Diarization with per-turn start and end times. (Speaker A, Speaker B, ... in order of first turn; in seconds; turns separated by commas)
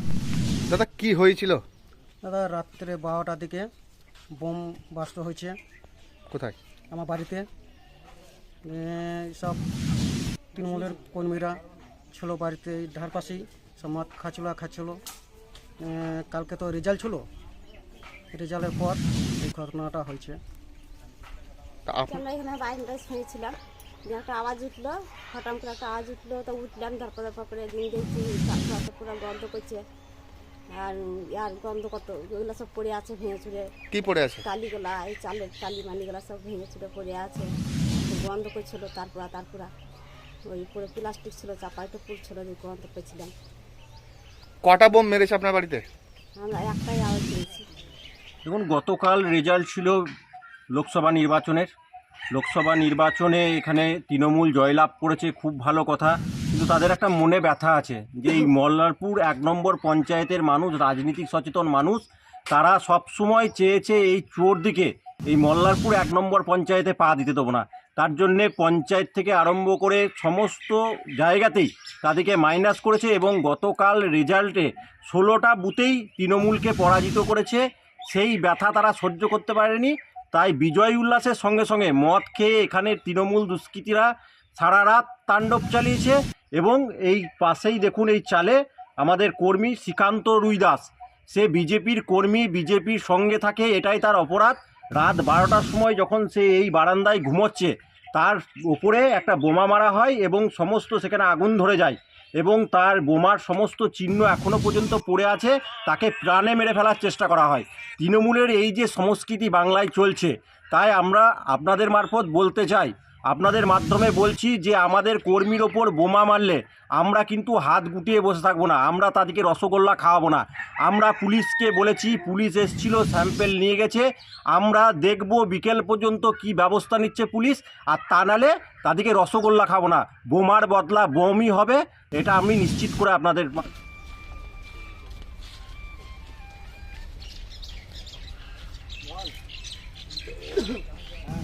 Speaker A: 0.7-1.6, Speaker B: 2.2-3.7, Speaker B: 4.4-5.6, Speaker A: 6.3-6.5, Speaker B: 6.9-7.5, Speaker B: 8.7-9.6, Speaker B: 10.5-11.6, Speaker B: 12.1-15.0, Speaker B: 15.8-17.3, Speaker B: 18.3-20.4, Speaker A: 21.9-22.2, Speaker C: 22.1-29.8, Speaker C: 30.7-33.7, Speaker A: 33.9-34.4, Speaker C: 34.4-39.7, Speaker C: 40.5-43.3, Speaker A: 44.6-45.9, Speaker C: 46.4-47.7, Speaker D: 48.4-50.0, Speaker D: 50.7-51.7, Speaker D: 52.3-133.7